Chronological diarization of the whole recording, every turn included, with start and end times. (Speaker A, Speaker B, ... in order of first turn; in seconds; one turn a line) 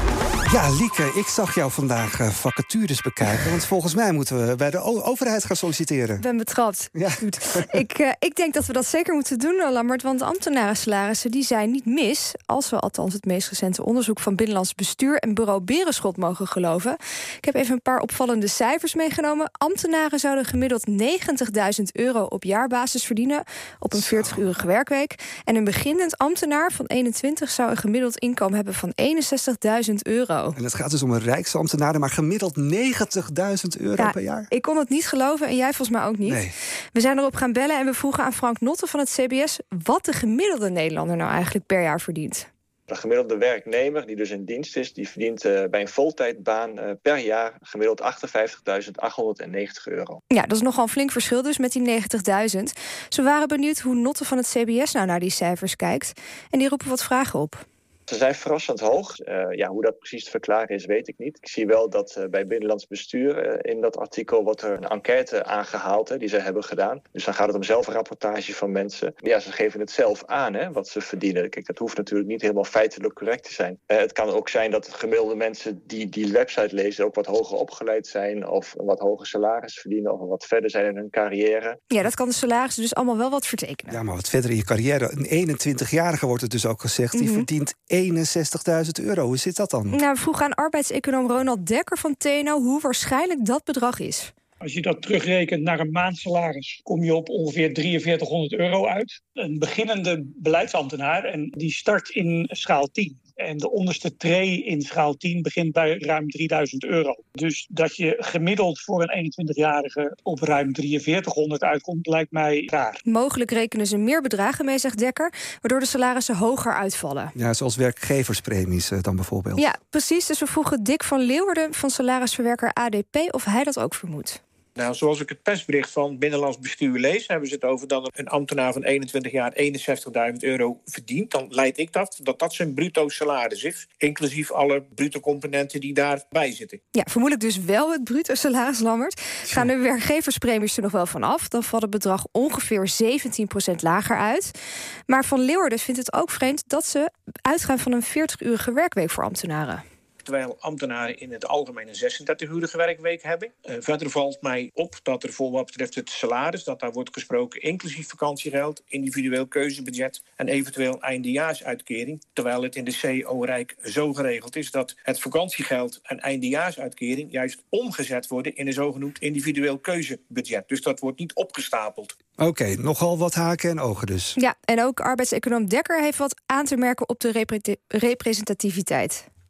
Speaker A: 0.5-6.2
Speaker B: 6.2-30.6
Speaker A: 7.0-7.7
Speaker A: 23.9-24.4
Speaker A: 30.6-34.5
Speaker B: 34.0-42.5
Speaker A: 36.2-36.5
Speaker C: 42.9-50.2
Speaker B: 50.3-57.6
Speaker C: 58.1-81.8
Speaker B: 81.9-84.0
Speaker A: 83.9-90.0
Speaker B: 87.1-87.5
Speaker B: 89.9-94.3
Speaker D: 94.6-113.0
Speaker B: 113.0-117.3
Speaker A: 117.3-119.7
Speaker B: 119.6-124.4
Speaker E: 124.8-136.8
Speaker B: 136.9-144.5
Speaker B: 145.1-149.8
Speaker E: 150.2-172.2
Speaker A: 172.4-174.4
Speaker B: 174.4-179.2